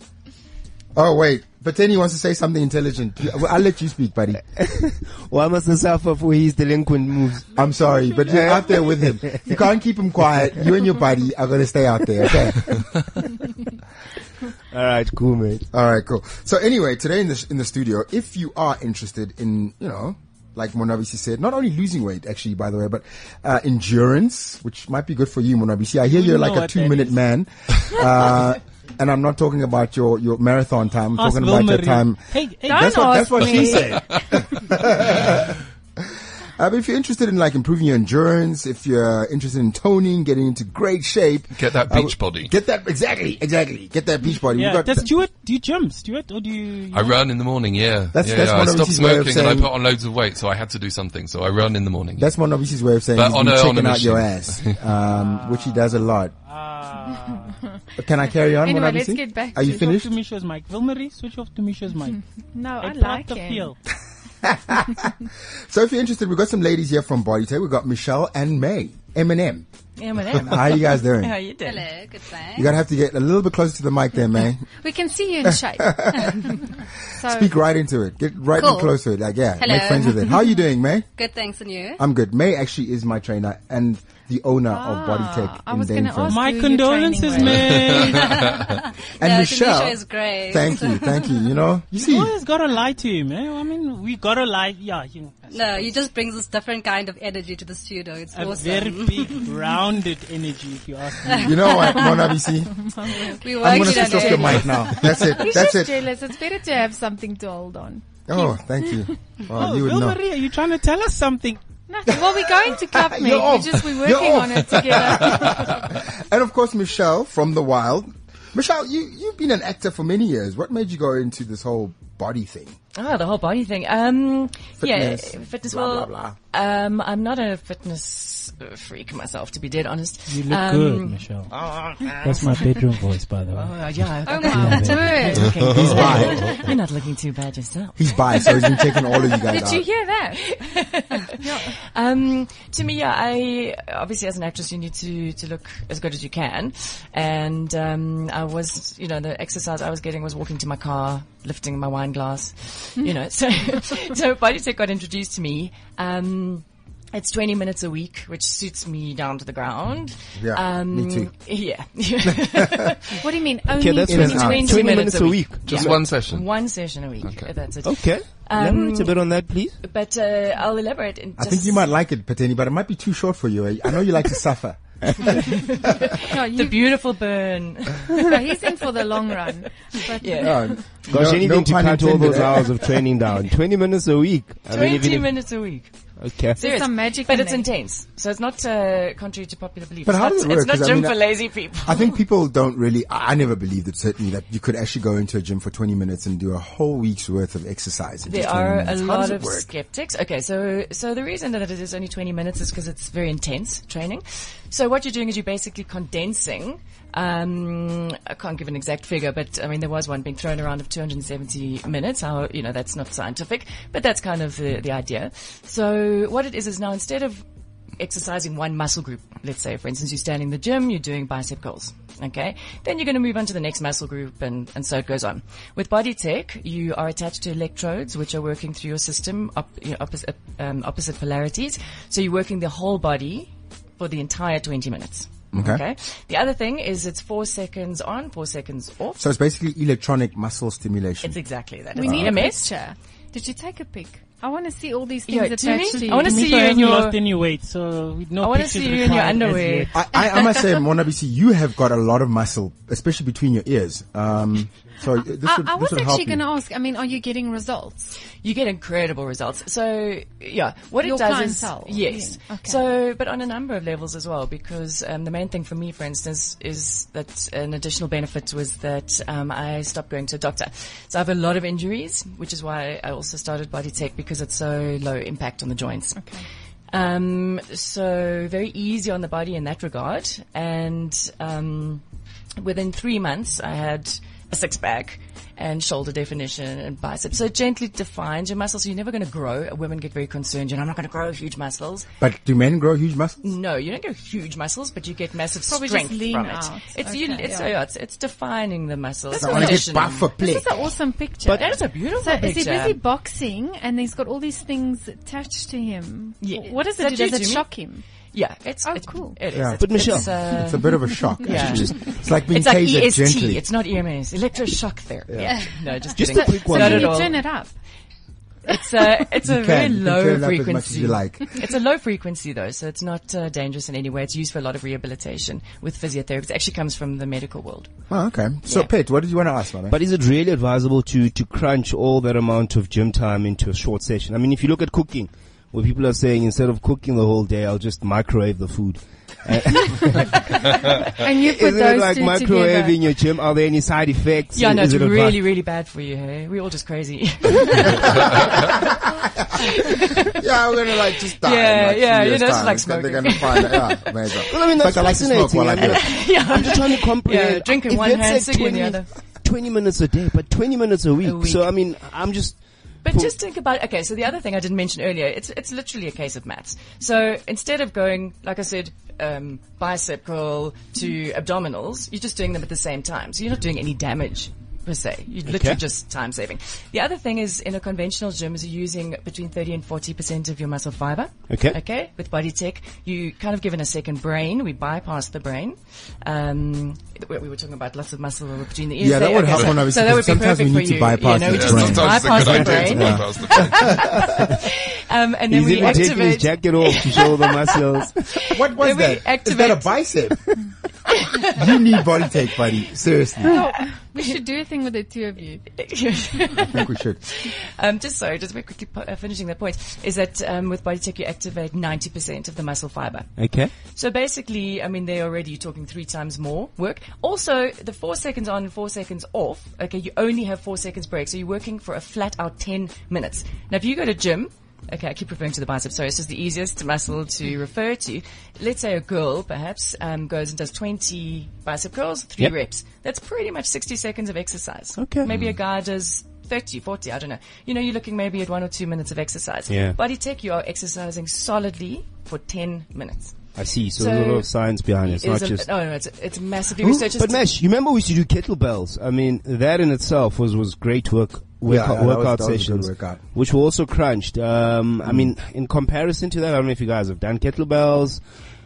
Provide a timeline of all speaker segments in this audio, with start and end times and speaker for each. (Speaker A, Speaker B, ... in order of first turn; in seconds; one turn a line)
Speaker A: 0.9-4.4
Speaker B: 4.6-7.5
Speaker A: 7.5-13.0
Speaker B: 8.3-9.5
Speaker B: 14.7-15.7
Speaker A: 15.7-45.1
Speaker C: 26.1-27.2
Speaker C: 31.2-33.9
Speaker D: 32.7-34.0
Speaker E: 41.5-42.5
Speaker C: 44.5-47.2
Speaker E: 46.9-52.3
Speaker A: 48.1-49.7
Speaker A: 52.2-56.3
Speaker E: 53.1-54.7
Speaker C: 55.0-57.6
Speaker A: 58.0-60.1
Speaker D: 58.6-59.9
Speaker C: 59.6-62.2
Speaker D: 62.5-63.7
Speaker C: 62.8-63.8
Speaker A: 64.4-69.7
Speaker F: 70.0-71.9
Speaker A: 70.3-71.4
Speaker G: 71.6-72.7
Speaker A: 72.5-74.7
Speaker D: 74.8-77.5
Speaker A: 75.5-81.1
Speaker G: 78.6-79.0
Speaker G: 79.6-80.5
Speaker G: 81.2-82.0
Speaker A: 82.0-86.4
Speaker D: 84.7-87.9
Speaker C: 86.3-88.4
Speaker E: 87.6-88.7
Speaker G: 88.1-91.4
Speaker A: 89.2-92.4
Speaker C: 92.0-95.9
Speaker G: 95.5-99.5
Speaker C: 98.3-101.7
Speaker G: 101.3-102.2
Speaker A: 101.4-102.8
Speaker D: 102.0-109.1
Speaker G: 103.3-105.4
Speaker A: 103.6-106.0
Speaker A: 108.3-110.2
Speaker C: 109.5-111.6
Speaker D: 111.9-115.8
Speaker A: 112.1-122.8
Speaker F: 123.0-132.9
Speaker A: 124.8-126.4
Speaker C: 130.3-131.5
Speaker C: 132.2-133.8
Speaker F: 133.5-139.4
Speaker D: 134.3-135.8
Speaker C: 134.5-135.4
Speaker E: 135.4-136.6
Speaker A: 135.7-136.6
Speaker A: 138.0-139.9
Speaker D: 139.4-140.5
Speaker F: 140.4-163.2
Speaker D: 141.4-141.7
Speaker A: 160.4-161.3
Speaker A: 162.2-162.9
Speaker D: 163.2-165.0
Speaker B: 163.8-166.0
Speaker A: 164.1-164.8
Speaker F: 164.2-171.9
Speaker E: 165.7-166.5
Speaker E: 167.2-167.5
Speaker B: 167.8-169.8
Speaker A: 171.4-176.1
Speaker F: 175.3-179.5
Speaker D: 176.3-176.8
Speaker D: 178.2-180.9
Speaker F: 180.1-180.8
Speaker A: 180.3-182.8
Speaker B: 181.1-185.5
Speaker F: 184.7-185.9
Speaker B: 186.2-186.6
Speaker D: 186.6-187.7
Speaker F: 186.6-192.2
Speaker A: 190.0-199.7
Speaker F: 198.3-217.4
Speaker F: 218.0-239.3
Speaker A: 235.5-235.8
Speaker A: 239.2-241.4
Speaker F: 241.2-242.7
Speaker A: 242.0-242.3
Speaker D: 242.0-246.4
Speaker F: 245.3-247.2
Speaker C: 246.0-249.9
Speaker F: 248.4-250.1
Speaker A: 249.9-256.4
Speaker D: 255.4-258.1
Speaker F: 258.4-282.0
Speaker D: 261.0-262.8
Speaker D: 276.1-276.5
Speaker F: 282.6-292.1
Speaker A: 292.2-293.4
Speaker F: 293.4-300.3
Speaker D: 295.7-297.8
Speaker D: 299.3-308.0
Speaker A: 299.4-300.8
Speaker B: 301.5-301.8
Speaker F: 301.6-303.0
Speaker F: 306.4-307.8
Speaker F: 308.3-317.6
Speaker D: 308.8-309.4
Speaker A: 309.5-313.6
Speaker B: 309.8-310.7
Speaker B: 311.4-312.2
Speaker B: 316.1-317.3
Speaker D: 316.3-317.8
Speaker F: 318.7-327.9
Speaker A: 319.4-321.6
Speaker A: 328.1-329.9
Speaker F: 328.7-328.9
Speaker B: 329.9-340.7
Speaker D: 341.2-343.0
Speaker B: 341.3-345.4
Speaker F: 344.5-348.9
Speaker F: 349.6-350.4
Speaker A: 350.3-356.3
Speaker F: 350.9-354.6
Speaker B: 354.5-363.3
Speaker F: 355.8-359.1
Speaker F: 361.2-361.8
Speaker F: 363.0-400.0
Speaker B: 375.5-375.8
Speaker B: 381.5-381.8
Speaker A: 389.0-394.3
Speaker E: 389.5-389.8
Speaker E: 391.4-394.2
Speaker B: 395.5-398.2
Speaker A: 398.5-400.5
Speaker F: 401.2-402.6
Speaker A: 401.4-403.6
Speaker D: 403.4-405.6
Speaker F: 405.7-447.5
Speaker A: 406.6-407.2
Speaker B: 413.4-413.7
Speaker B: 435.0-435.3
Speaker E: 435.3-435.6
Speaker B: 439.7-440.0
Speaker B: 443.6-445.8
Speaker B: 446.8-458.2
Speaker A: 451.6-453.2